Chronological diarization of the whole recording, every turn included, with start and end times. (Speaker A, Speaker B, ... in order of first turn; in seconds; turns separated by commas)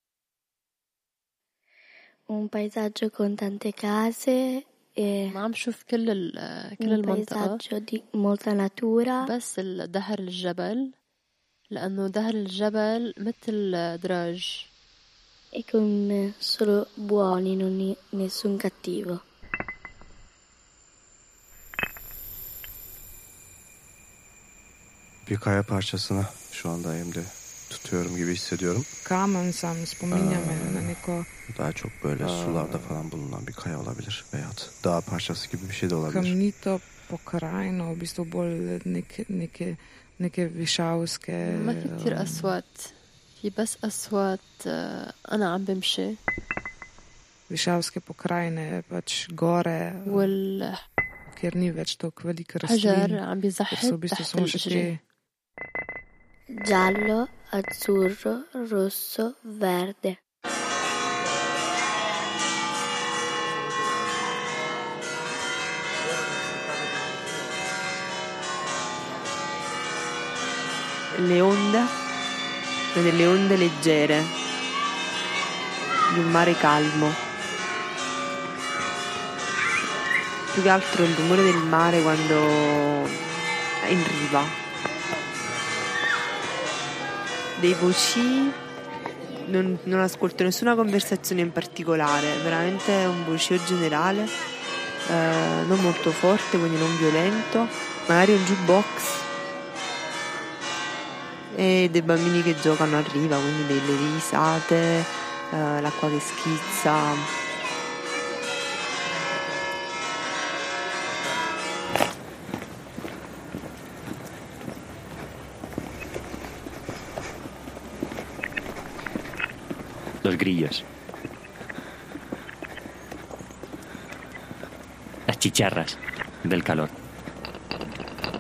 Speaker A: 2.3-5.3, Speaker B: 5.3-7.6, Speaker A: 6.8-9.3, Speaker B: 9.2-11.0, Speaker B: 11.7-14.7, Speaker A: 15.6-19.2, Speaker C: 25.2-28.9, Speaker D: 29.1-31.3, Speaker C: 30.1-30.9, Speaker C: 31.5-36.4, Speaker D: 32.2-33.0, Speaker D: 36.1-42.5, Speaker B: 41.5-46.2, Speaker D: 47.5-50.3, Speaker B: 50.1-50.8, Speaker D: 51.3-55.0, Speaker B: 52.6-54.9, Speaker A: 56.6-60.2, Speaker E: 71.1-71.9, Speaker E: 72.9-74.3, Speaker E: 76.1-77.2, Speaker E: 80.5-83.2, Speaker E: 83.8-84.6, Speaker E: 87.6-88.6, Speaker E: 89.4-94.3, Speaker E: 95.1-99.2, Speaker E: 101.5-107.3, Speaker F: 120.2-120.8, Speaker F: 125.3-126.9